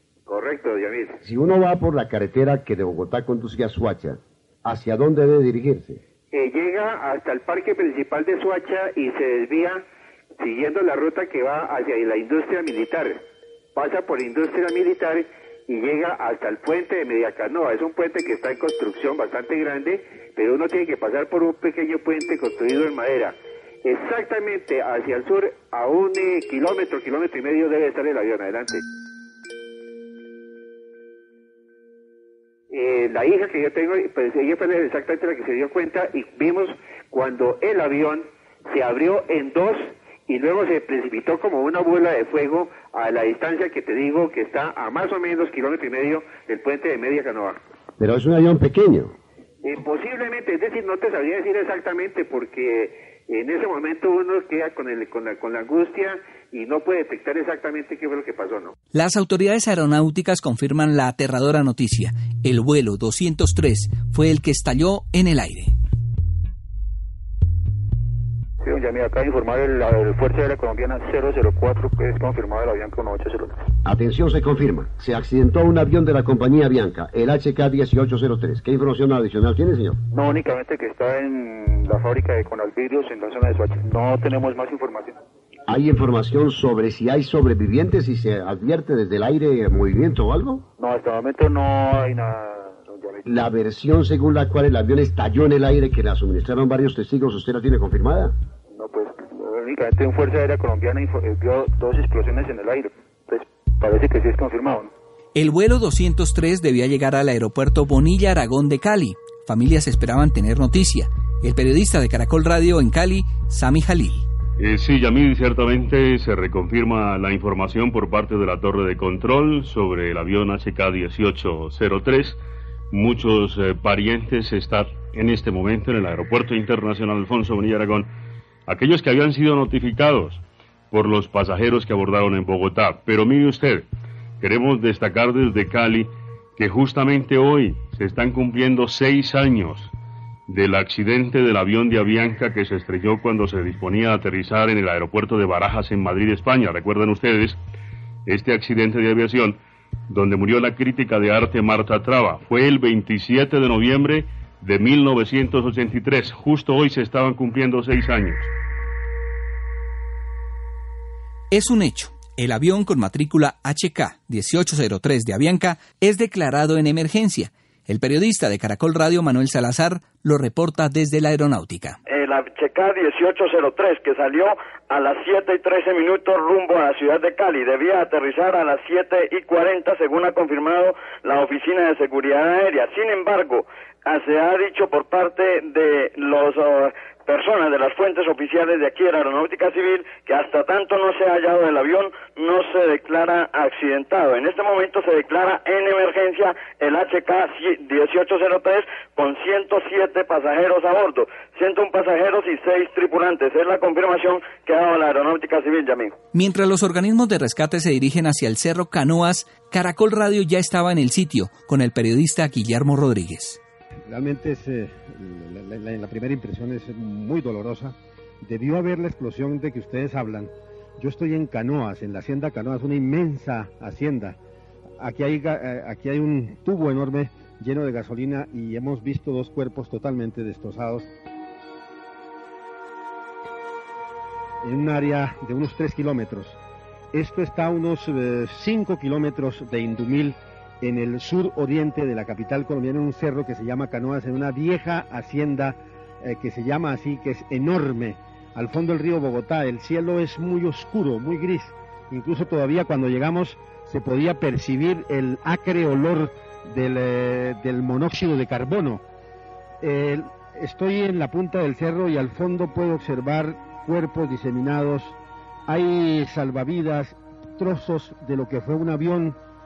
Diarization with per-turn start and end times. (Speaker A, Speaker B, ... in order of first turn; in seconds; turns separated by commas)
Speaker A: 0.3-1.2, Speaker B: 1.2-6.0, Speaker A: 6.3-9.8, Speaker A: 10.4-13.2, Speaker A: 13.7-28.8, Speaker A: 32.7-47.6, Speaker B: 48.0-49.1, Speaker A: 49.6-58.7, Speaker C: 58.9-65.7, Speaker D: 68.6-73.6, Speaker B: 73.8-80.0, Speaker D: 80.1-85.2, Speaker B: 85.7-90.7, Speaker D: 90.8-93.4, Speaker B: 93.2-98.3, Speaker D: 98.7-104.9, Speaker C: 105.3-114.2, Speaker E: 114.6-122.4, Speaker E: 122.9-128.1, Speaker E: 128.7-133.9, Speaker E: 134.4-139.9, Speaker E: 140.5-147.6, Speaker E: 148.3-149.6, Speaker E: 150.1-158.5, Speaker C: 161.5-172.0, Speaker F: 172.1-206.1, Speaker C: 206.3-213.6, Speaker G: 214.1-224.4, Speaker G: 225.0-231.1, Speaker G: 234.6-236.6, Speaker G: 237.1-259.0, Speaker G: 259.8-265.1, Speaker G: 265.7-269.4